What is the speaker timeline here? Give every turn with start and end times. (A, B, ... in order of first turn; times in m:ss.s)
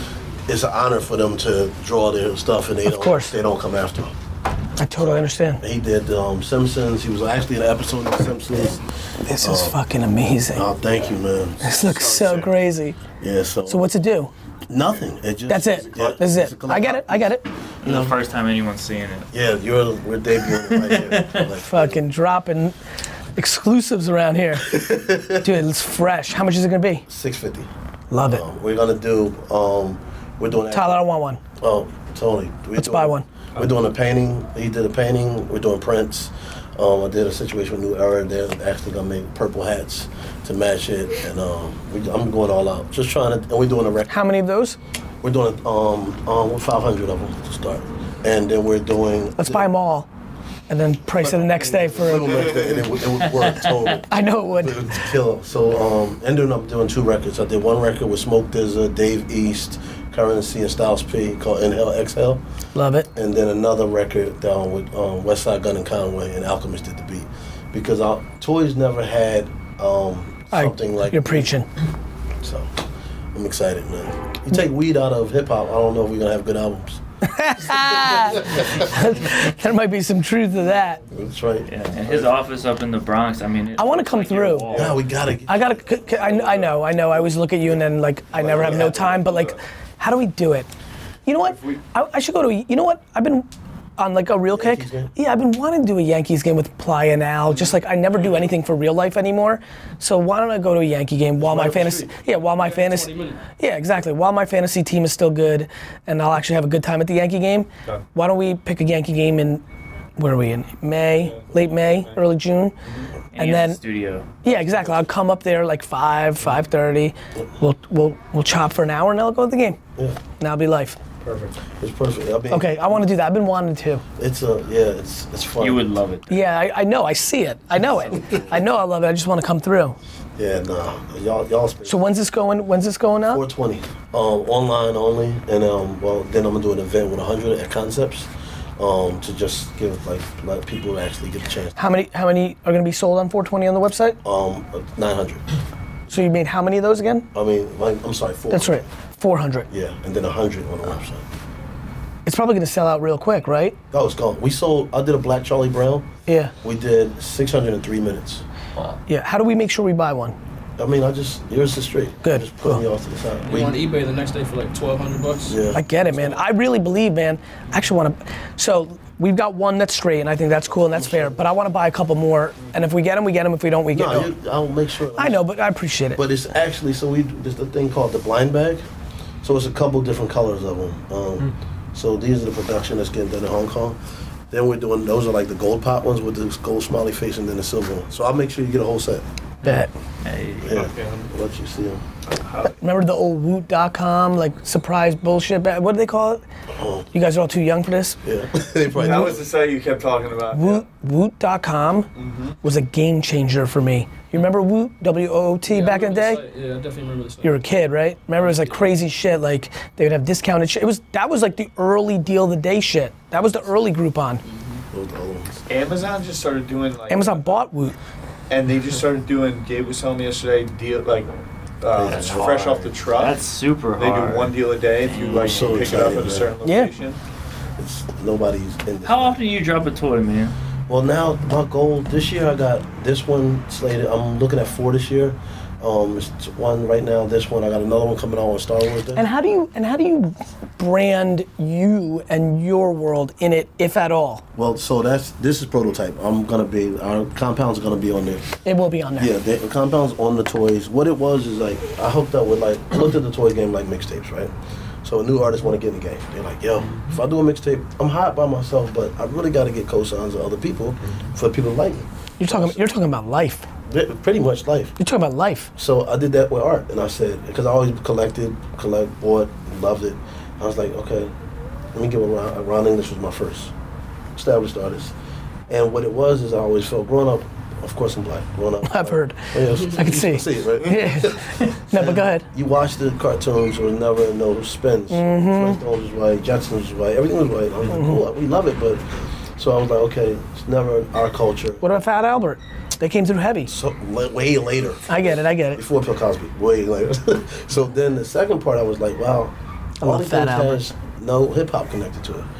0:00.5-0:04.1 A
0:02.8-0:03.3 B
0:04.8-0:05.6 B
0:05.0-0:08.8 A
0:09.2-0:10.6 B
0:09.4-0:09.8 A
0:10.5-0:12.5 A
0:11.6-0:13.0 B
0:13.2-0:13.9 A
0:13.6-0:14.3 B
0:14.7-0:18.1 A
0:15.5-0:17.4 B
0:17.8-0:19.3 C
0:19.3-0:22.0 A
0:21.6-0:22.7 B
0:23.4-0:27.0 B
0:24.6-0:25.4 A
0:27.1-0:31.0 A
0:28.1-0:28.4 B
0:30.7-0:31.4 B
0:31.6-0:44.1 A
0:32.8-0:33.2 B
0:44.1-0:44.8 B
0:45.2-0:49.7 A
0:49.4-0:50.1 B
0:50.7-0:52.5 B
0:51.2-1:02.4 A
0:54.1-0:54.8 B
1:02.7-1:03.1 B
1:03.1-1:11.5 A
1:10.5-1:11.7 B
1:12.4-1:12.7 A
1:13.3-1:17.0 A
1:17.2-1:21.0 B
1:17.7-1:18.7 A
1:21.1-1:22.3 A
1:21.7-1:25.0 C
1:23.8-1:24.9 B
1:24.7-1:27.3 A
1:25.5-1:30.7 B
1:28.3-1:29.2 A
1:28.8-1:29.4 D
1:31.2-1:33.5 B
1:34.0-1:49.6 B
1:34.5-1:35.1 A
1:41.4-1:42.2 A
1:42.4-1:43.4 E
1:50.2-1:52.7 B
1:51.2-1:52.2 D
1:53.3-1:54.4 C
1:53.4-1:53.8 B
1:54.4-1:59.8 B
2:00.4-2:01.0 B
2:01.2-2:01.6 D
2:01.8-2:02.7 A
2:02.5-2:04.0 B
2:04.2-2:05.9 A
2:05.6-2:06.5 C
2:06.3-2:10.0 B
2:08.2-2:08.5 A
2:10.4-2:12.0 A
2:11.8-2:13.4 B
2:13.2-2:21.9 A
2:21.8-2:24.2 B
2:24.2-2:25.4 A
2:26.1-2:27.3 B
2:27.3-2:28.8 A
2:28.5-2:29.7 B
2:29.7-2:31.2 A
2:32.2-2:33.8 B
2:33.9-2:36.1 A
2:36.2-2:36.5 B
2:36.6-2:38.4 A
2:39.1-2:40.3 B
2:40.8-2:43.8 A
2:42.2-2:42.8 B
2:43.4-2:45.6 E
2:45.5-2:46.3 A
2:45.7-2:54.3 B
2:50.7-2:51.5 A
2:53.9-2:55.4 A
2:55.1-2:56.2 B
2:56.1-2:58.8 A
2:59.4-3:04.0 A
3:04.5-3:09.2 A
3:09.6-3:09.9 B
3:09.6-3:10.7 C
3:10.6-3:12.0 A
3:10.7-3:11.3 D
3:12.2-3:12.8 D
3:12.7-3:16.4 B
3:16.7-3:17.0 A
3:17.1-3:18.2 B
3:18.2-3:19.5 A
3:19.0-3:20.8 D
3:20.5-3:22.1 B
3:22.2-3:22.6 D
3:22.6-3:26.4 B
3:25.7-3:27.6 E
3:27.4-3:34.4 B
3:28.4-3:28.8 E
3:34.4-3:34.8 E
3:34.9-3:35.6 A
3:35.7-3:37.6 D
3:37.1-3:37.9 B
3:38.5-3:47.2 D
3:41.9-3:43.0 A
3:43.1-3:45.9 C
3:45.3-3:46.5 A
3:46.6-3:46.9 B
3:47.8-3:49.4 A
3:49.0-3:50.5 C
3:50.9-3:59.2 A
3:59.2-4:04.4 B
4:04.6-4:08.4 A
4:08.6-4:09.3 B
4:09.2-4:14.5 A
4:15.0-4:22.8 A
4:22.4-4:23.7 B
4:23.9-4:25.0 A
4:25.0-4:25.7 B
4:25.8-4:31.3 A
4:31.9-4:33.7 A
4:34.4-4:35.1 A
4:35.7-4:49.0 A
4:38.8-4:42.4 B
4:45.1-4:45.8 B
4:47.9-4:48.2 B
4:49.6-4:51.8 A
4:51.8-4:53.7 B
4:53.7-5:02.4 A
4:55.1-4:55.8 B
5:00.0-5:00.8 B